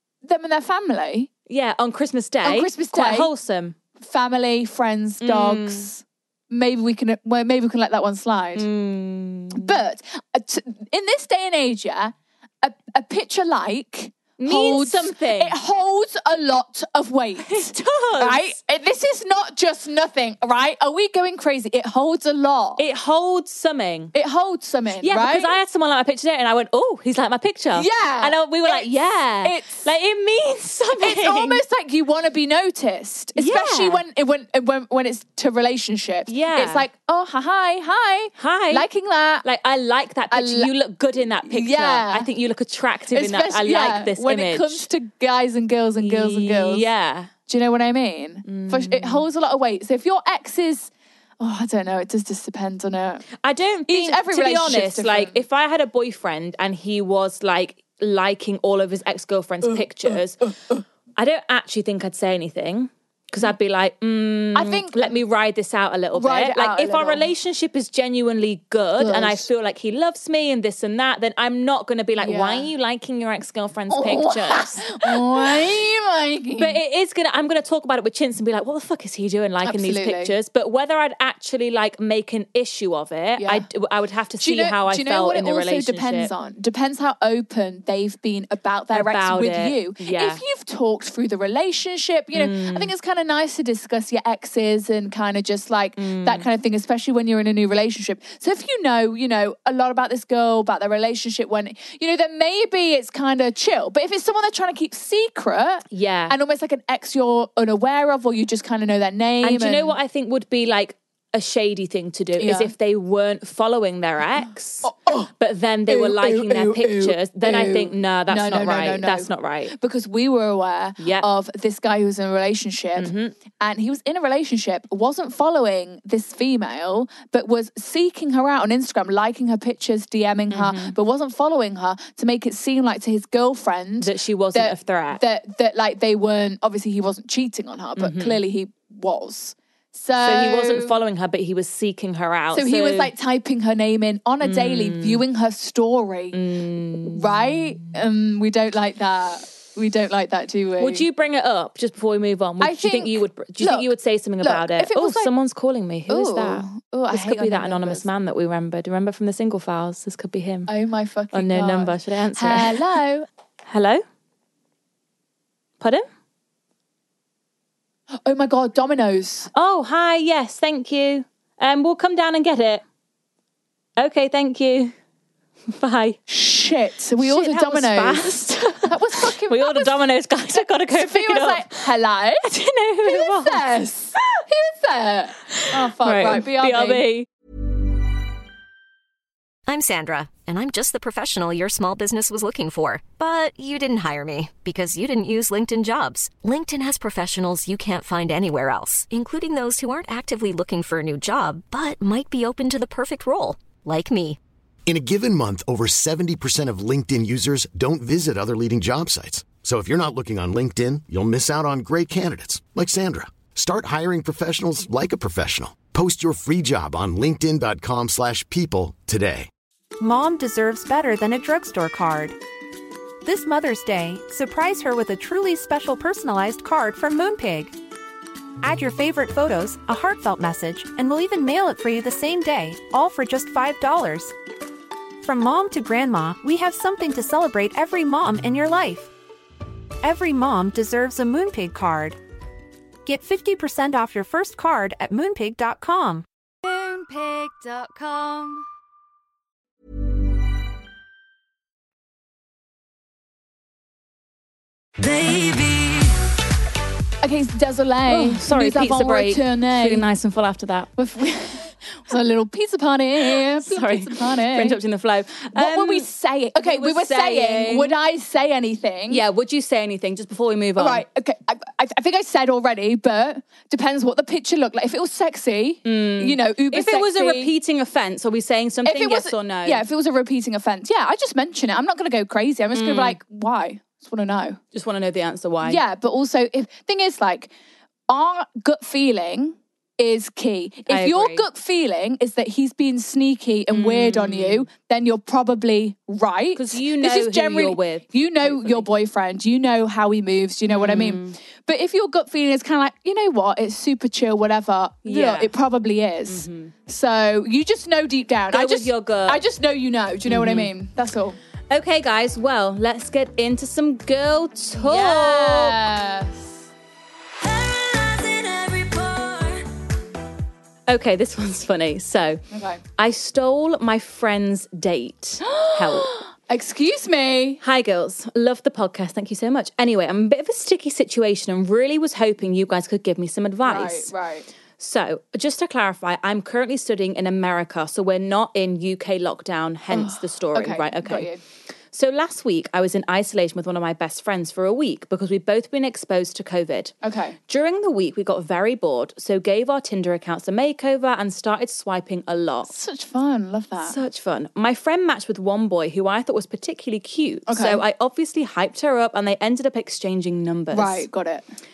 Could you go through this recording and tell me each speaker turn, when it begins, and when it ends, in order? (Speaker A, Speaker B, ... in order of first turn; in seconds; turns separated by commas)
Speaker A: 0.2-1.3, Speaker B: 1.5-3.8, Speaker A: 2.4-3.3, Speaker A: 4.0-8.7, Speaker B: 5.2-5.9, Speaker B: 8.6-9.8, Speaker A: 9.5-22.8, Speaker B: 14.4-15.6, Speaker B: 17.4-18.5, Speaker B: 22.8-24.1, Speaker A: 24.1-25.6, Speaker B: 25.0-31.6, Speaker A: 27.7-28.9, Speaker A: 29.4-29.9, Speaker A: 31.0-39.5, Speaker B: 33.4-34.0, Speaker B: 36.3-36.9, Speaker B: 38.4-38.9, Speaker B: 39.4-44.9, Speaker A: 40.3-40.7, Speaker A: 41.5-42.3, Speaker A: 43.1-46.9, Speaker B: 46.0-47.3, Speaker A: 47.5-53.3, Speaker B: 48.5-49.3, Speaker B: 53.4-60.4, Speaker A: 53.9-55.4, Speaker A: 59.7-60.8, Speaker B: 61.2-75.6, Speaker A: 64.5-65.2, Speaker A: 66.1-67.2, Speaker A: 69.0-69.5, Speaker A: 72.2-72.7, Speaker A: 73.9-76.8, Speaker B: 76.6-86.3, Speaker A: 79.6-80.3, Speaker A: 83.4-83.7, Speaker A: 84.4-110.0, Speaker B: 88.9-90.4, Speaker B: 92.3-92.9, Speaker B: 96.0-96.5, Speaker B: 105.9-106.4, Speaker B: 109.4-119.8, Speaker A: 112.4-112.7, Speaker A: 114.8-115.3, Speaker A: 115.9-141.0, Speaker B: 121.0-121.3, Speaker B: 123.0-123.3, Speaker B: 130.5-130.9, Speaker B: 134.0-135.2, Speaker B: 138.0-138.4, Speaker B: 140.2-143.1, Speaker A: 142.5-146.4, Speaker B: 144.4-145.2, Speaker B: 146.3-147.7, Speaker A: 147.1-151.0, Speaker B: 150.8-160.7, Speaker A: 152.6-153.9, Speaker A: 154.4-155.3, Speaker A: 156.1-158.1, Speaker A: 160.7-163.3, Speaker B: 161.3-162.9, Speaker B: 163.7-164.0, Speaker A: 168.2-169.5, Speaker B: 169.5-172.8, Speaker B: 174.0-174.9, Speaker B: 175.7-176.2, Speaker A: 176.3-180.0, Speaker B: 177.2-181.9, Speaker A: 180.6-187.0, Speaker B: 182.5-183.7, Speaker B: 185.5-187.3, Speaker C: 189.7-204.4, Speaker D: 204.9-219.5, Speaker E: 220.0-222.4, Speaker E: 223.2-227.7, Speaker E: 228.6-234.3, Speaker E: 235.2-239.1, Speaker E: 240.0-242.2, Speaker E: 243.1-246.2, Speaker F: 246.6-248.7, Speaker B: 255.0-256.2, Speaker A: 257.2-260.1, Speaker B: 258.1-260.9, Speaker A: 261.0-264.8, Speaker B: 263.2-268.0, Speaker A: 265.6-269.2, Speaker B: 269.1-271.0, Speaker A: 270.8-277.5, Speaker B: 275.9-279.8, Speaker A: 278.9-284.6, Speaker B: 282.7-283.2, Speaker B: 284.7-285.8, Speaker A: 285.6-287.5, Speaker A: 288.1-311.4, Speaker B: 290.9-291.4, Speaker B: 293.7-294.7, Speaker B: 296.6-298.9, Speaker B: 300.7-301.4, Speaker B: 305.1-305.5, Speaker B: 306.3-306.7, Speaker B: 308.5-309.4, Speaker B: 310.3-310.7, Speaker B: 311.7-315.8, Speaker A: 314.8-316.6, Speaker B: 317.4-319.7, Speaker B: 320.9-322.4, Speaker A: 322.5-322.8, Speaker B: 323.0-326.1, Speaker A: 325.4-327.6, Speaker B: 327.6-334.1, Speaker A: 333.6-334.5, Speaker B: 334.8-341.3, Speaker A: 339.9-341.4, Speaker B: 341.9-346.9, Speaker A: 347.0-347.4, Speaker B: 347.5-352.7, Speaker A: 352.7-354.0, Speaker B: 353.8-361.1, Speaker A: 357.5-357.8, Speaker A: 360.7-361.5